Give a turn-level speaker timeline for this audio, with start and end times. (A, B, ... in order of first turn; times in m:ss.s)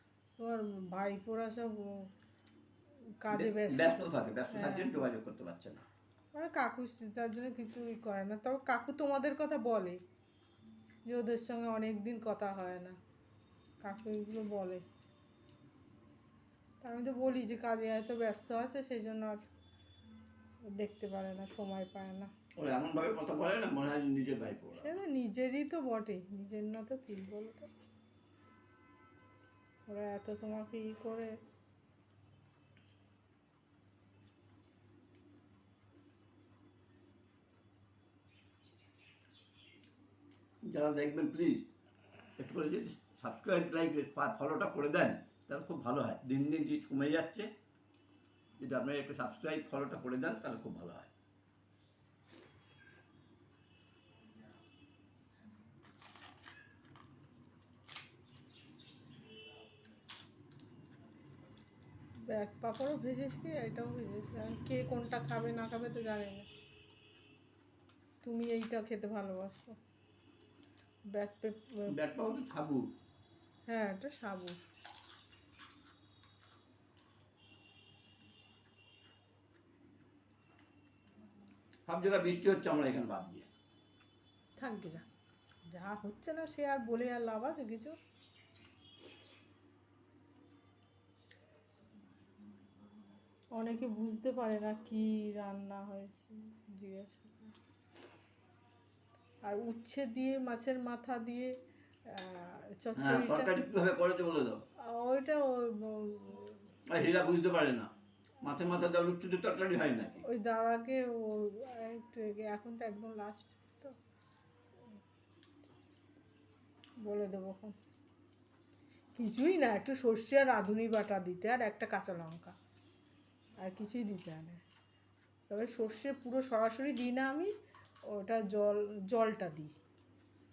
0:00.4-0:02.1 A
0:03.2-0:05.0 A
0:03.3-0:05.8 B
0:06.3-0:10.0 A
0:11.0-0:13.0 A
0:13.8-0:14.8 A
0:16.8-0:19.4 A
0:20.7-0:22.3 A
0:22.6-0:24.9 B
0:24.7-0:27.7 A
0:29.9-0:31.3 A
0:40.6-0:41.7 B
0:42.4-0:47.5 B
0:48.6-0:51.1 B
1:02.2-1:06.5 A
1:08.2-1:09.8 A
1:11.1-1:11.9 A
1:11.9-1:12.9 B
1:13.7-1:14.6 A
1:21.9-1:23.5 B
1:24.6-1:25.1 A
1:25.7-1:28.0 A
1:33.5-1:37.5 A
1:39.4-1:41.5 A
1:42.1-1:43.5 A
1:43.0-1:44.6 B
1:44.8-1:46.6 A
1:46.9-1:47.9 B
1:48.4-1:50.3 B
1:50.2-1:53.9 A
1:57.0-1:57.8 A
1:59.2-2:02.6 A
2:03.6-2:04.6 A
2:05.5-2:07.5 A
2:08.1-2:09.7 A